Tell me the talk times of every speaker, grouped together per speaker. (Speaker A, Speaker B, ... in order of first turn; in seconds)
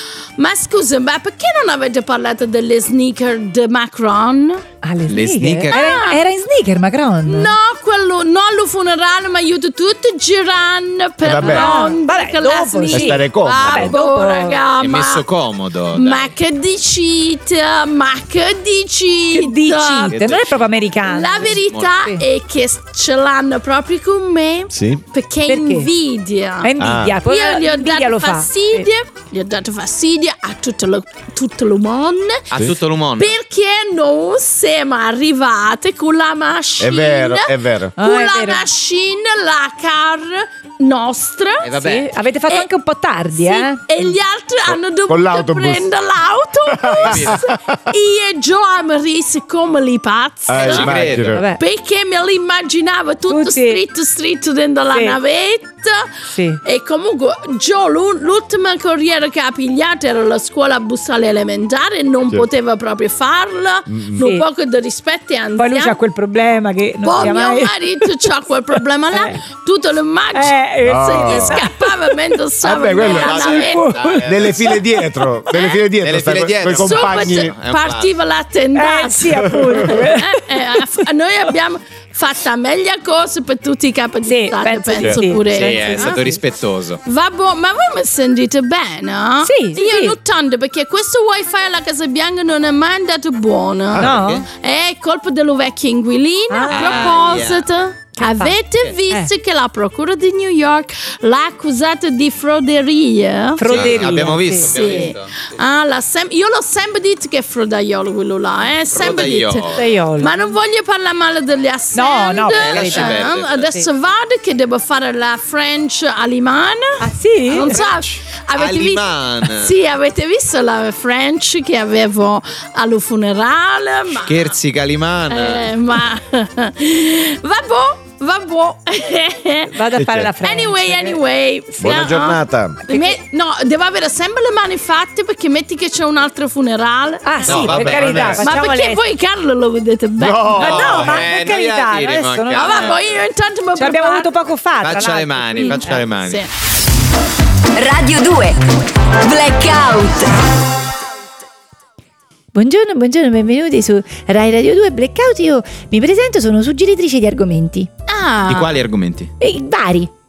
Speaker A: 0.4-4.6, 5.7-6.2, 7.2-15.2, 15.9-20.2, 21.0-32.4, 33.2-41.8, 43.4-66.0, 67.0-73.9, 75.5-75.8, 76.7-86.2, 87.0-124.5, 125.3-129.8, 130.4-140.7, 142.5-144.3, 145.6-146.5, 158.1-158.7
Speaker B: 4.8-7.5, 11.4-14.6, 19.3-22.2, 25.5-25.9, 26.6-28.9, 38.0-38.6, 41.8-43.8, 51.3-51.6, 53.3-53.8, 54.9-55.2, 56.3-56.6, 64.2-64.4, 65.6-69.3, 70.3-72.1, 73.4-74.7, 78.7-81.0, 84.2-86.4, 89.4-90.2, 94.0-94.4, 96.5-97.2, 98.2-98.5, 103.5-105.1, 109.7-110.3, 111.9-113.8, 117.0-117.8, 129.7-131.2, 132.9-133.2, 137.2-139.0, 140.6-143.0, 143.8-146.0, 152.5-157.9, 159.4-160.1
Speaker C: 5.1-5.8, 14.8-16.3, 20.1-20.5, 21.4-21.9, 32.5-33.4, 41.6-42.1, 46.9-47.4, 50.5-51.4, 72.9-74.7, 76.0-78.1, 85.5-87.0, 94.0-94.4, 96.7-97.7, 103.6-105.5, 108.9-109.8, 112.5-113.7, 117.7-119.7, 124.2-125.7, 137.4-138.4, 140.5-143.0, 144.8-146.4, 158.4-159.3
Speaker D: 11.2-11.8, 12.9-13.9, 24.7-25.0, 26.8-27.2, 36.8-37.9, 45.1-45.9, 46.6-47.8, 50.5-51.4, 63.9-64.2, 70.8-71.6, 72.6-73.5, 74.2-77.5, 129.9-130.3, 131.8-132.8, 137.5-138.4, 140.2-141.2
Speaker E: 147.8-150.3